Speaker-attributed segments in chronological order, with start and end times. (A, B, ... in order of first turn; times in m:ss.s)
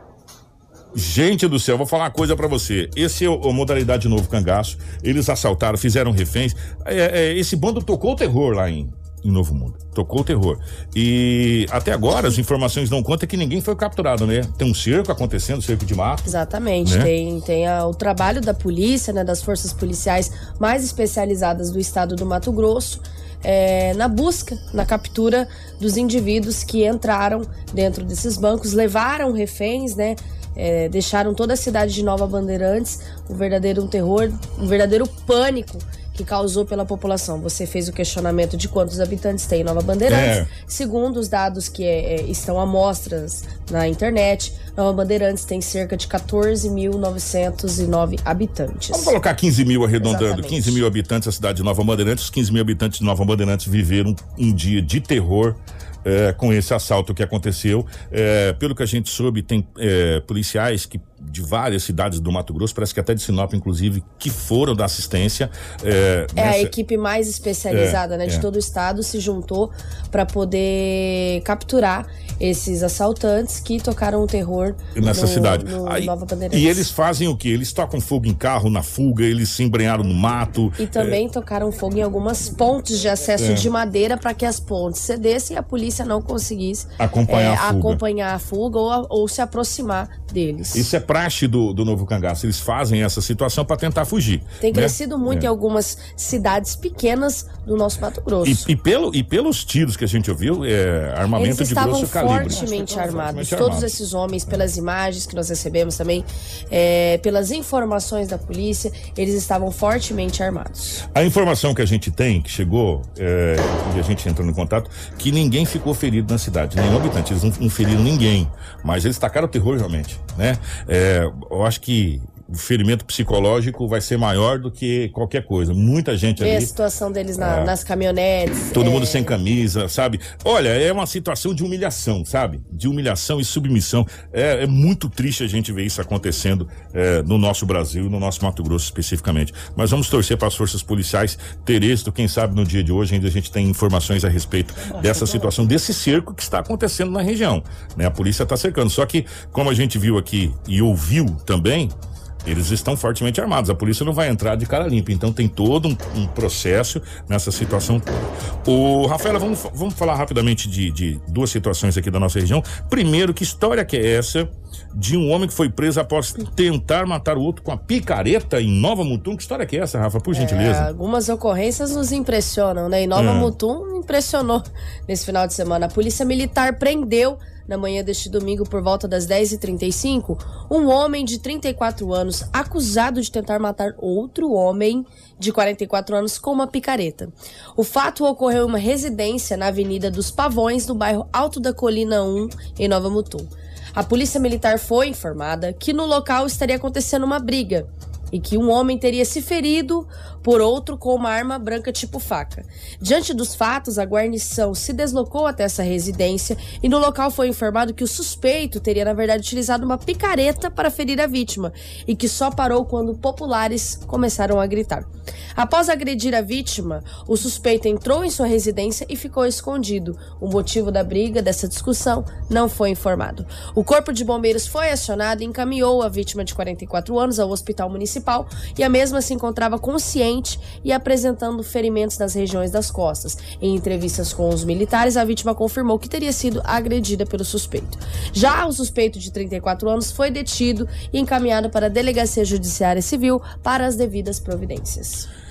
0:01.0-0:16.3 A
0:16.3-0:49.1 B
0:16.8-0:17.1 A
0:40.1-0:40.5 A
0:48.9-1:06.7 A
0:50.0-0:50.8 B
1:06.4-1:16.9 B
1:07.7-1:08.4 A
1:15.0-1:21.2 A
1:20.8-1:30.9 B
1:23.4-1:23.7 A
1:27.0-1:28.0 A
1:30.7-1:35.5 A
1:34.6-1:38.6 B
1:38.4-1:43.9 A
1:41.4-1:51.0 B
1:51.1-2:06.7 A
2:06.4-2:09.4 B
2:07.4-2:07.7 A
2:08.7-2:31.9 A
2:32.4-2:50.9 A
2:50.3-4:05.3 B
2:53.2-2:53.5 A